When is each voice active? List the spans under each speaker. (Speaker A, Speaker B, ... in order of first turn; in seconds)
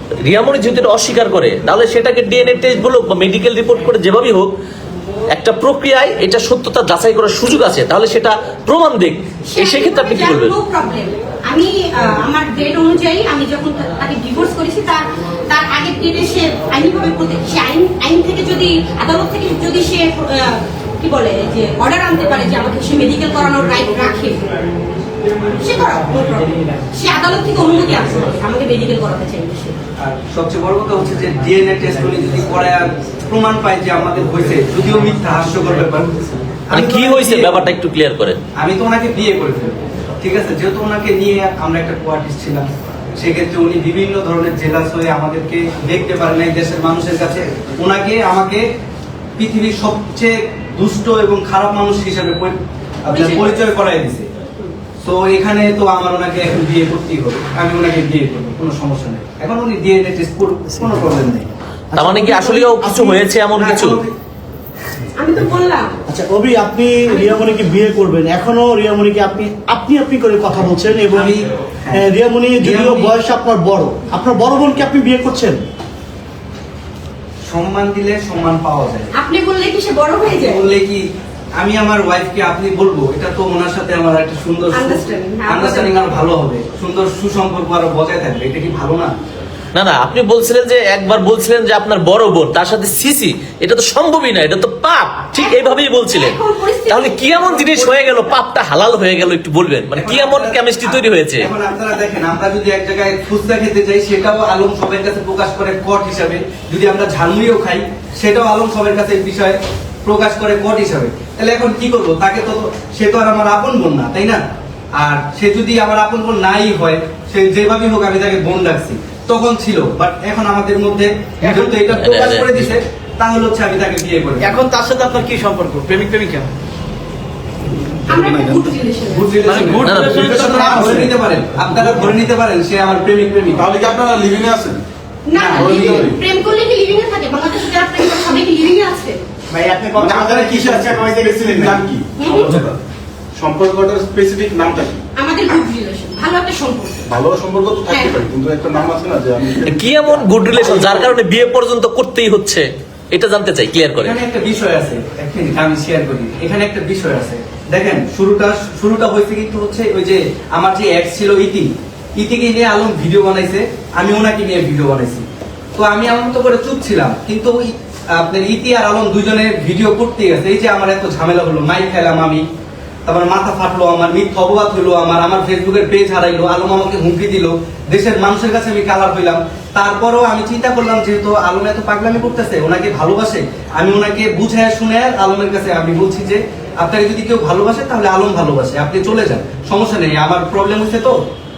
Speaker A: 0.2-4.5, 5.3-10.5, 36.7-38.4, 61.9-64.0, 89.7-101.5, 121.4-122.7, 129.8-130.3, 149.6-154.2
Speaker B: 9.5-24.4, 25.6-29.7, 53.1-53.5, 65.2-65.9, 79.1-80.6, 84.7-85.9, 95.3-97.6, 128.1-129.4, 135.3-139.2, 142.2-142.5, 145.2-147.1, 147.9-148.2
Speaker C: 30.0-37.6, 38.5-48.7, 49.4-54.3, 55.0-61.5, 63.5-64.1, 71.1-73.1, 77.5-79.1, 80.2-81.0, 81.6-89.1, 99.9-114.4, 115.0-124.6, 129.1-133.7, 135.3-136.1, 139.6-141.8, 154.0-165.2, 165.8-172.4, 173.1-191.2
Speaker D: 61.9-63.2, 66.1-71.4, 71.9-75.6
Speaker E: 124.4-126.5, 129.4-131.1
Speaker F: 130.2-131.0, 133.6-134.8, 135.6-136.2, 139.9-142.8, 143.4-145.0, 147.1-151.1